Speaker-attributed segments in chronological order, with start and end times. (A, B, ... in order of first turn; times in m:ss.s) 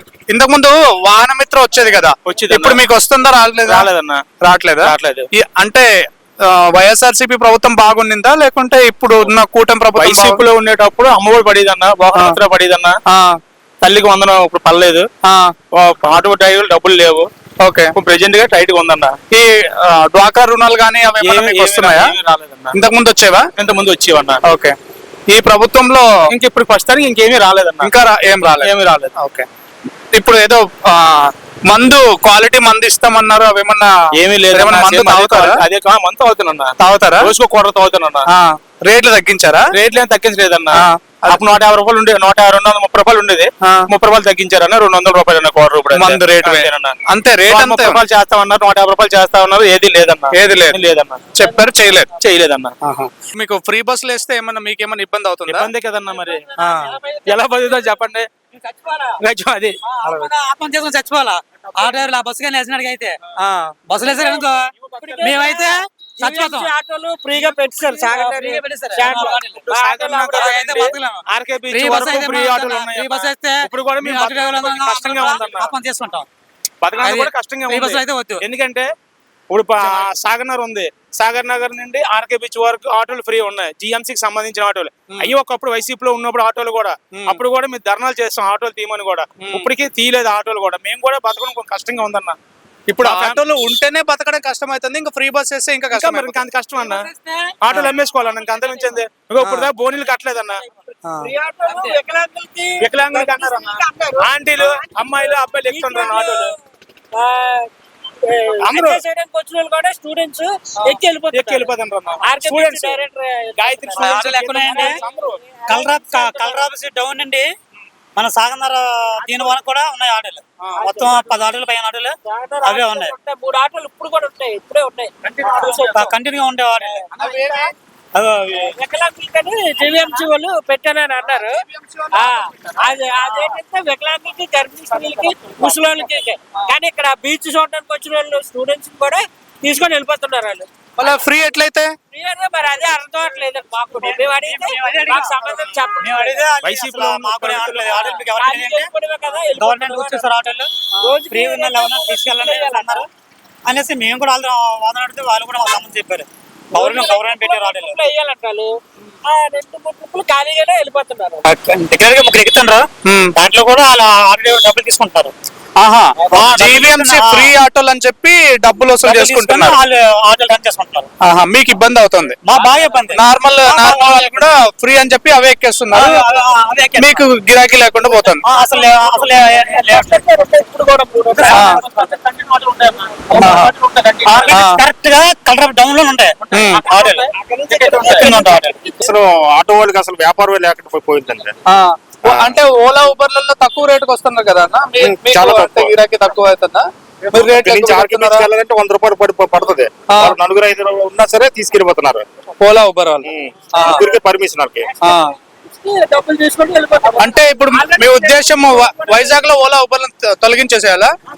0:00.3-0:03.9 A
0:02.3-0:02.8 B
0:03.6-0:04.2 B
0:04.4-0:05.9 A
0:04.8-0:05.3 B
0:06.5-0:10.4 A
0:10.0-0:13.0 B
0:13.1-0:13.4 A
0:13.8-0:15.1 B
0:15.2-0:15.5 A
0:15.7-0:17.3 B
0:17.6-0:17.9 A
0:17.9-0:19.2 B
0:19.3-0:22.1 A
0:21.2-0:22.8 B
0:22.7-0:23.5 A
0:23.6-0:24.4 B
0:24.5-0:24.8 A
0:25.3-0:26.1 A
0:26.3-0:27.9 B
0:27.8-0:29.5 A
0:28.6-0:29.1 B
0:30.1-0:33.9 A
0:34.2-0:38.3 B
0:34.5-0:35.6 A
0:36.8-0:37.3 A
0:38.3-0:39.7 A
0:39.7-0:51.3 B
0:40.7-0:41.4 A
0:45.9-0:48.0 A
0:50.3-0:50.8 A
0:51.4-0:52.1 A
0:52.2-0:52.8 B
0:52.8-0:55.7 A
0:55.5-0:56.4 B
0:56.6-0:57.0 A
0:56.7-0:57.0 C
0:57.3-0:58.3 B
0:59.2-0:59.8 B
0:59.9-1:03.2 C
1:03.4-1:03.8 A
1:03.9-1:04.7 C
1:04.2-1:04.4 D
1:05.0-1:05.3 B
1:05.0-1:10.6 D
1:05.2-1:06.7 C
1:07.6-1:09.7 C
1:09.2-1:15.8 B
1:10.3-1:11.2 C
1:11.7-1:16.3 C
1:16.8-1:18.9 B
1:17.1-1:18.4 C
1:19.5-1:32.4 B
1:19.8-1:20.1 A
1:27.1-1:27.4 A
1:29.4-1:29.7 A
1:32.9-1:36.4 A
1:33.0-1:33.4 B
1:35.9-1:40.6 B
1:37.1-1:37.4 D
1:39.4-1:39.7 A
1:41.0-1:41.3 A
1:41.2-1:44.3 D
1:41.7-1:42.0 C
1:42.8-1:46.6 B
1:45.7-1:46.5 D
1:47.2-1:47.7 D
1:48.2-1:51.7 D
1:48.6-1:49.0 B
1:51.3-1:55.4 B
1:52.3-1:54.9 D
1:54.0-1:55.0 C
1:55.7-1:57.4 C
1:55.7-1:56.8 D
1:58.2-2:03.2 C
1:59.2-1:59.5 D
2:00.8-2:01.5 D
2:02.3-2:06.0 D
2:05.9-2:07.1 C
2:06.8-2:07.4 D
2:07.2-2:07.7 A
2:08.2-2:08.8 C
2:08.7-2:11.6 D
2:12.1-2:20.7 D
2:21.0-2:22.0 A
2:22.1-2:24.7 D
2:23.9-2:30.7 C
2:25.2-2:26.4 D
2:26.6-2:28.1 B
2:28.2-2:30.2 D
2:31.0-2:33.0 D
2:31.2-2:33.0 C
2:33.7-2:38.1 C
2:36.8-2:38.7 D
2:39.3-2:41.4 D
2:41.4-2:42.8 C
2:43.0-2:43.3 A
2:43.4-2:45.3 C
2:45.8-2:49.8 A
2:46.3-2:47.5 C
2:49.0-2:51.1 C
2:51.2-2:52.4 A
2:52.4-2:54.5 C
2:53.1-2:56.3 A
2:55.9-2:57.2 C
2:57.0-2:58.4 A
2:58.5-3:00.3 C
3:00.0-3:01.3 D
3:01.3-3:04.6 B
3:01.3-3:02.0 C
3:01.5-3:01.8 A
3:03.4-3:03.7 A
3:04.2-3:07.3 C
3:04.5-3:04.8 A
3:06.5-3:08.4 B
3:06.5-3:06.8 A
3:07.7-3:08.1 D
3:08.0-3:09.0 C
3:09.0-3:11.5 E
3:11.7-3:18.5 A
3:12.2-3:12.6 E
3:15.0-3:16.0 E
3:17.3-3:22.2 E
3:20.1-3:20.4 A
3:22.6-3:24.1 A
3:23.2-3:24.9 E
3:25.0-3:25.3 A
3:25.8-3:27.2 D
3:27.2-3:31.1 A